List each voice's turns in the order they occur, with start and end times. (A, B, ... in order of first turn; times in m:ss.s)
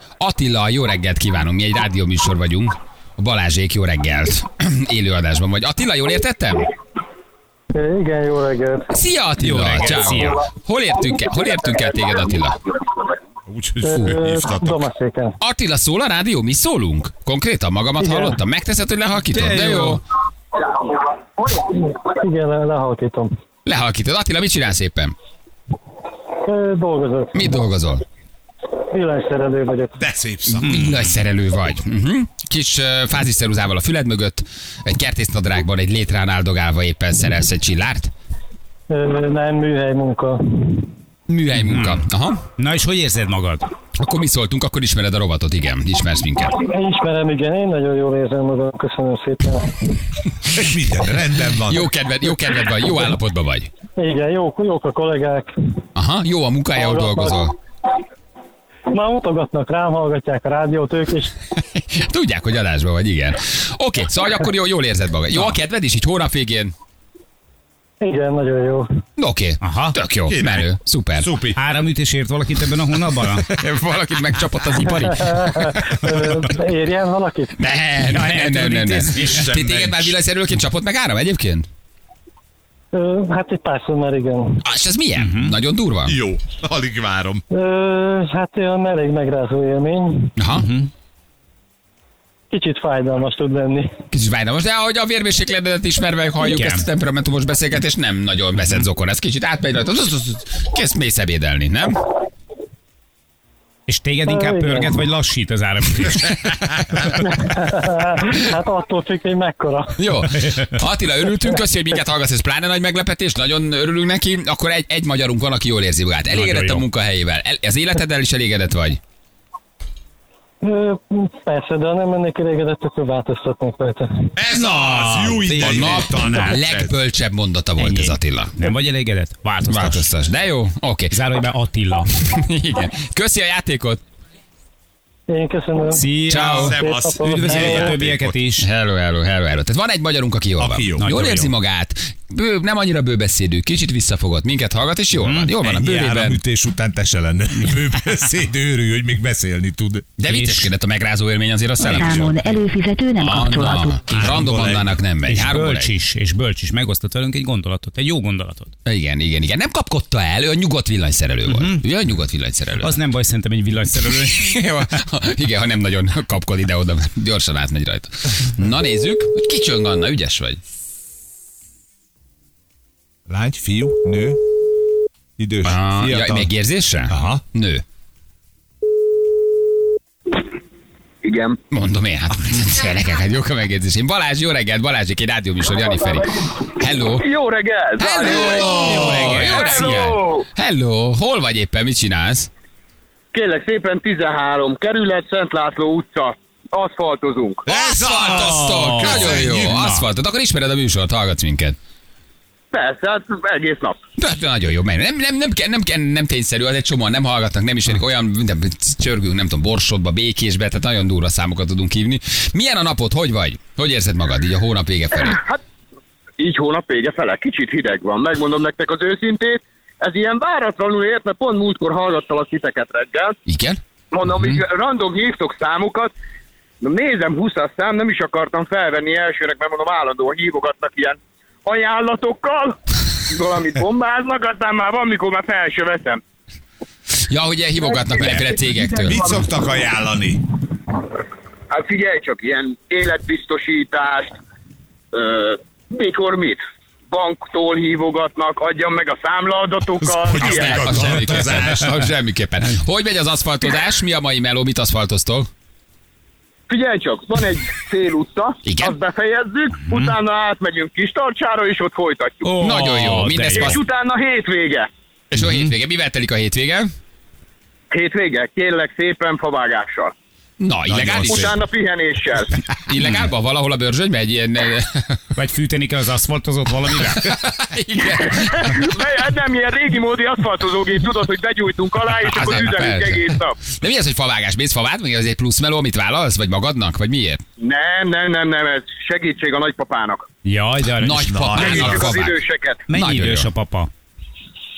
0:00.2-0:06.7 A
0:07.7-0:08.9 B
0:08.9-0:12.6 A
0:09.4-0:10.4 C
0:13.5-0:14.8 D
0:13.8-0:15.4 B
0:15.4-0:20.0 A
0:18.0-0:18.4 B
0:19.3-0:20.0 D
0:19.4-0:19.8 C
0:21.4-0:23.3 B
0:23.6-0:25.1 A
0:26.4-0:27.3 B
0:27.3-0:28.0 A
0:28.9-0:30.0 B
0:30.0-0:30.9 D
0:30.4-0:38.1 A
0:30.7-0:31.0 C
0:38.9-0:40.9 B
0:41.3-0:42.4 A
0:41.5-0:42.0 C
0:42.6-0:43.6 C
0:44.0-0:46.5 A
0:46.6-0:50.0 B
0:50.5-0:51.9 D
0:51.6-0:53.7 A
0:54.0-0:55.5 B
0:55.9-0:57.5 A
0:56.7-0:57.4 B
0:58.9-1:01.3 B
1:01.5-1:06.7 A
1:05.3-1:05.6 C
1:08.0-1:08.8 B
1:09.2-1:11.3 A
1:09.6-1:10.0 C
1:10.3-1:10.7 D
1:11.2-1:11.6 D
1:11.6-1:13.5 C
1:13.5-1:15.8 A
1:15.1-1:17.5 B
1:17.6-1:21.6 A
1:18.0-1:19.5 C
1:19.2-1:20.1 D
1:22.9-1:24.6 B
1:24.6-1:26.2 A
1:25.2-1:25.6 C
1:26.0-1:27.4 D
1:27.5-1:30.3 B
1:30.4-1:30.7 A
1:30.5-1:30.9 C
1:32.5-1:33.9 B
1:34.1-1:42.0 A
1:36.4-1:36.9 C
1:43.9-1:47.2 C
1:44.3-1:45.0 B
1:47.2-1:49.9 B
1:50.0-1:59.0 A
1:56.3-1:56.8 C
2:00.6-2:04.1 B
2:04.3-2:07.0 D
2:04.5-2:06.5 C
2:05.5-2:08.5 A
2:07.8-2:10.1 C
2:09.7-2:11.2 A
2:11.1-2:12.1 C
2:12.1-2:14.0 A
2:15.3-2:16.0 B
2:15.9-2:18.6 C
2:16.3-2:16.7 A
2:16.3-2:18.4 D
2:16.8-2:18.0 B
2:18.6-2:26.4 A
2:20.6-2:21.1 D
2:21.0-2:21.5 C
2:25.1-2:25.5 C
2:25.6-2:30.0 D
2:30.2-2:32.3 A
2:30.3-2:30.7 C
2:31.8-2:34.0 E
2:31.8-2:32.4 D
2:33.2-2:35.9 A
2:34.1-2:35.0 D
2:35.2-2:38.7 C
2:38.8-2:43.0 A
2:41.5-2:41.8 C
2:42.8-2:44.4 C
2:44.2-2:50.6 A
2:53.3-2:54.4 D
2:55.4-2:56.5 D
2:55.6-2:57.8 A
2:57.1-2:57.4 D
3:01.2-3:01.6 F
3:01.7-3:07.2 A
3:07.2-3:10.4 F
3:08.0-3:12.5 A
3:08.3-3:10.1 C
3:13.3-3:17.6 F
3:17.6-3:19.8 D
3:17.7-3:21.8 A
3:18.2-3:20.1 C
3:22.7-3:24.0 F
3:24.2-3:35.4 A
3:35.3-3:35.6 F
3:36.4-3:43.4 F
3:43.5-3:43.8 A
3:44.1-3:46.1 F
3:46.8-3:52.8 F
3:53.3-3:56.2 F
3:57.3-3:59.2 A
3:58.0-3:58.5 F
3:58.9-4:00.4 D
4:01.7-4:04.4 F
4:05.1-4:11.3 F
4:10.1-4:11.9 D
4:10.4-4:15.5 A
4:16.7-4:22.5 F
4:18.6-4:19.0 A
4:19.8-4:20.1 C
4:22.4-4:23.8 C
4:22.6-4:23.8 A
4:23.6-4:24.9 F
4:25.3-4:26.9 A
4:25.4-4:25.6 C
4:27.9-4:30.1 F
4:30.6-4:31.6 A
4:30.9-4:31.6 D
4:31.1-4:32.5 F
4:32.7-4:35.3 A
4:33.0-4:33.3 C
4:35.4-4:37.2 C
4:37.2-4:38.8 A
4:38.2-4:43.5 F
4:42.3-4:47.4 A
4:47.6-4:50.2 F
4:50.4-4:52.1 C
4:51.0-4:53.5 A
4:51.3-4:52.1 D
4:51.6-4:52.8 F
4:52.9-4:53.9 C